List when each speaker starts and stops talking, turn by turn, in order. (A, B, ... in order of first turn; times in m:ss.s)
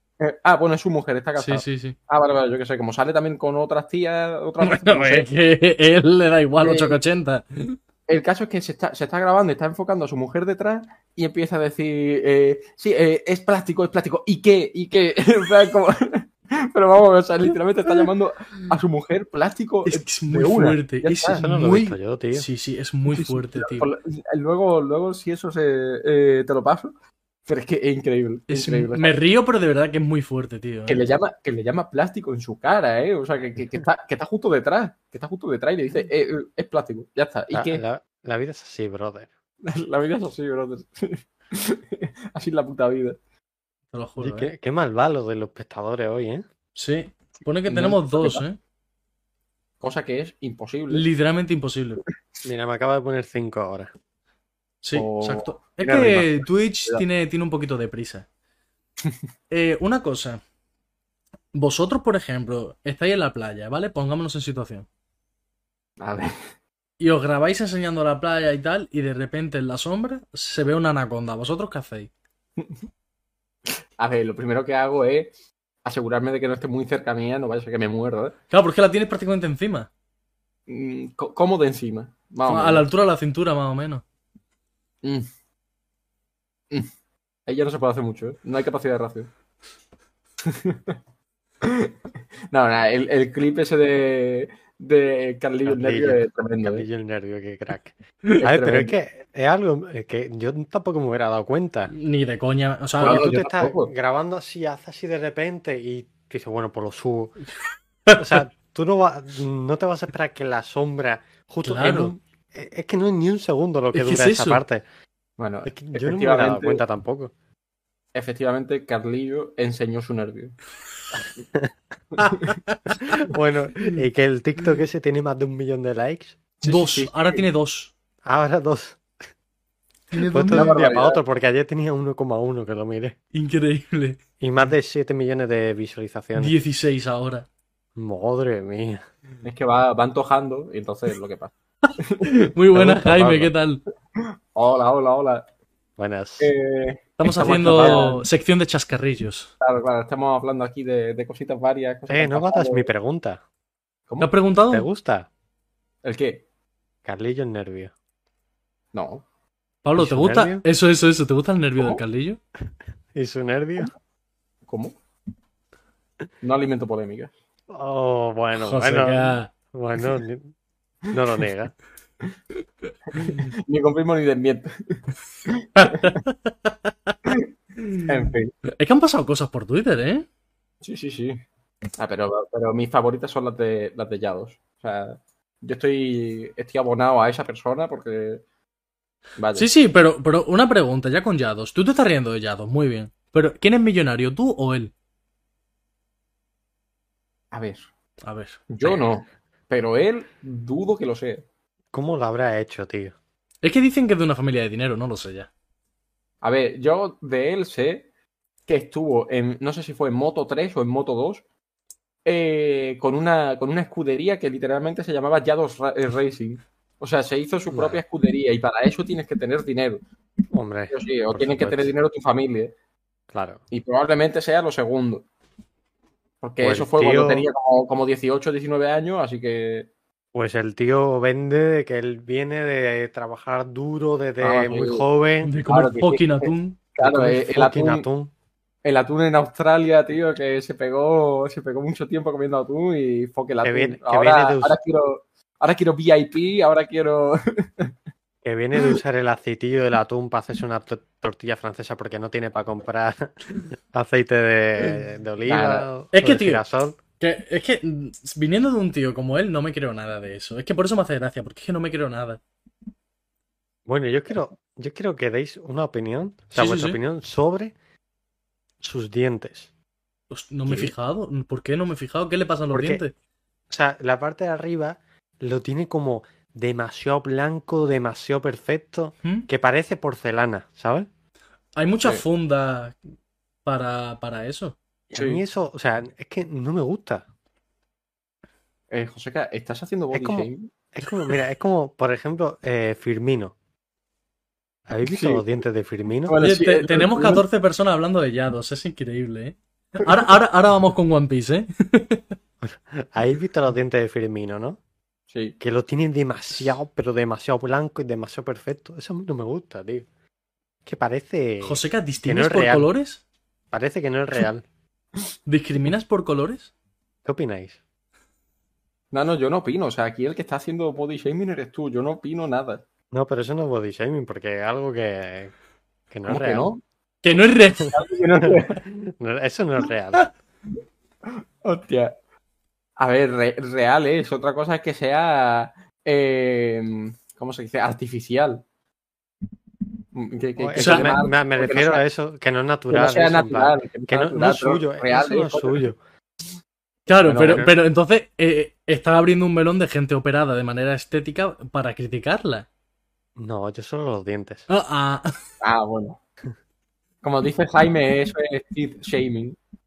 0:00.2-0:05.3 A
0:01.4-0:02.0 B
0:04.6-0:07.8 B
0:06.6-0:07.0 A
0:08.1-0:21.4 A
0:19.9-0:23.9 B
0:21.4-0:22.5 C
0:23.1-0:26.9 A
0:27.4-0:29.1 A
0:28.5-0:31.1 B
0:30.9-0:37.8 A
0:37.5-0:39.3 C
0:39.6-0:43.2 A
0:43.9-0:44.5 B
0:44.2-0:46.4 C
0:46.8-0:48.6 B
0:47.7-0:48.4 A
0:49.8-0:51.0 A
0:50.9-0:52.0 B
0:52.4-0:53.9 C
0:54.8-0:58.3 B
0:54.9-0:57.0 A
0:59.5-1:00.4 B
1:01.5-1:04.8 B
1:06.0-1:06.3 A
1:07.0-1:12.1 B
1:14.0-1:15.3 A
1:15.8-1:18.3 A
1:18.5-1:19.9 B
1:20.7-1:22.8 A
1:22.5-1:24.0 B
1:27.4-1:29.3 A
1:30.4-1:30.9 A
1:31.6-1:31.9 A
1:32.5-1:36.8 A
1:35.6-1:41.9 C
1:38.4-1:38.9 A
1:41.9-1:43.3 B
1:43.0-1:43.9 A
1:43.0-1:47.4 C
1:48.1-1:54.8 C
1:51.6-1:52.1 B
1:53.9-1:54.6 B
1:55.4-1:56.8 A
1:55.6-1:57.3 C
1:58.1-2:00.6 A
2:01.2-2:01.7 C
2:02.2-2:02.6 A
2:02.2-2:03.2 B
2:03.1-2:06.4 C
2:06.6-2:07.4 A
2:06.6-2:07.9 B
2:08.2-2:09.0 C
2:10.1-2:10.7 B
2:10.3-2:13.2 C
2:10.4-2:11.2 A
2:13.3-2:14.2 B
2:14.4-2:16.6 C
2:16.4-2:17.5 B
2:18.0-2:19.0 C
2:19.4-2:23.5 A
2:22.2-2:23.8 B
2:24.2-2:25.4 A
2:26.0-2:26.5 C
2:26.4-2:28.2 A
2:27.2-2:29.5 B
2:27.4-2:28.1 C
2:29.6-2:32.9 A
2:32.1-2:33.4 C
2:34.2-2:34.8 B
2:34.7-2:35.3 C
2:36.0-2:36.4 A
2:37.0-2:37.9 C
2:38.9-2:39.2 A
2:39.8-2:42.4 B
2:40.0-2:40.6 C
2:43.1-2:43.9 C
2:44.7-2:44.9 A
2:46.4-2:47.3 A
2:47.7-2:50.5 C
2:48.6-2:49.5 B
2:51.1-2:51.7 C
2:53.1-2:56.2 A
2:55.8-2:57.1 B
2:57.8-2:58.1 B
2:58.0-2:58.5 A
2:58.6-3:00.2 B
3:00.8-3:01.4 A
3:02.0-3:08.4 A
3:09.4-3:09.7 A
3:09.6-3:14.9 B
3:17.5-3:17.8 A
3:18.2-3:19.0 B
3:18.7-3:21.4 A
3:21.9-3:23.1 C
3:23.6-3:25.5 B
3:26.4-3:28.1 A
3:28.7-3:31.4 A
3:32.2-3:40.0 A
3:37.7-3:38.0 C
3:40.5-3:41.9 C
3:40.9-3:42.7 A
3:43.3-3:43.6 C
3:43.7-3:45.2 A
3:46.4-3:49.9 A
3:46.6-3:47.5 C
3:50.3-3:55.5 C
3:54.4-3:55.0 A
3:55.4-3:57.2 B
3:55.7-3:58.0 A
3:57.0-3:58.3 C
3:58.8-4:07.9 A
4:03.6-4:04.8 C
4:08.4-4:17.0 C
4:15.5-4:15.9 A
4:16.1-4:16.6 B
4:17.2-4:22.4 B
4:23.8-4:27.7 C
4:26.5-4:27.0 B
4:28.8-4:29.7 C
4:30.3-4:33.1 B
4:30.7-4:30.9 A
4:32.7-4:33.0 C
4:33.7-4:41.1 C
4:41.8-4:43.0 B
4:43.6-4:44.8 B
4:45.1-4:47.2 C
4:45.1-4:45.4 A
4:48.9-4:50.7 A
4:50.1-4:53.5 C
4:54.9-4:56.4 C
4:55.1-4:55.4 A
4:56.2-4:57.4 A
4:56.4-5:02.2 B
5:02.6-5:04.8 C
5:05.6-5:10.0 C
5:10.8-5:12.9 C
5:11.6-5:13.2 B
5:13.7-5:14.6 C
5:15.5-5:16.7 B
5:17.2-5:17.8 C
5:19.1-5:22.8 A
5:23.1-5:25.5 C
5:26.1-5:26.7 C
5:26.3-5:26.8 A
5:27.2-5:28.0 B
5:27.9-5:28.8 A
5:28.4-5:30.3 C
5:31.6-5:32.1 A
5:33.0-5:38.6 A
5:40.1-5:42.0 A
5:40.6-5:46.0 C
5:40.8-5:41.1 B
5:42.9-5:45.8 A
5:47.1-5:52.7 B
5:47.2-5:47.7 A
5:47.4-5:47.7 C
5:53.4-5:54.6 C
5:54.7-5:55.4 B
5:55.6-5:56.2 A
5:57.2-5:59.6 A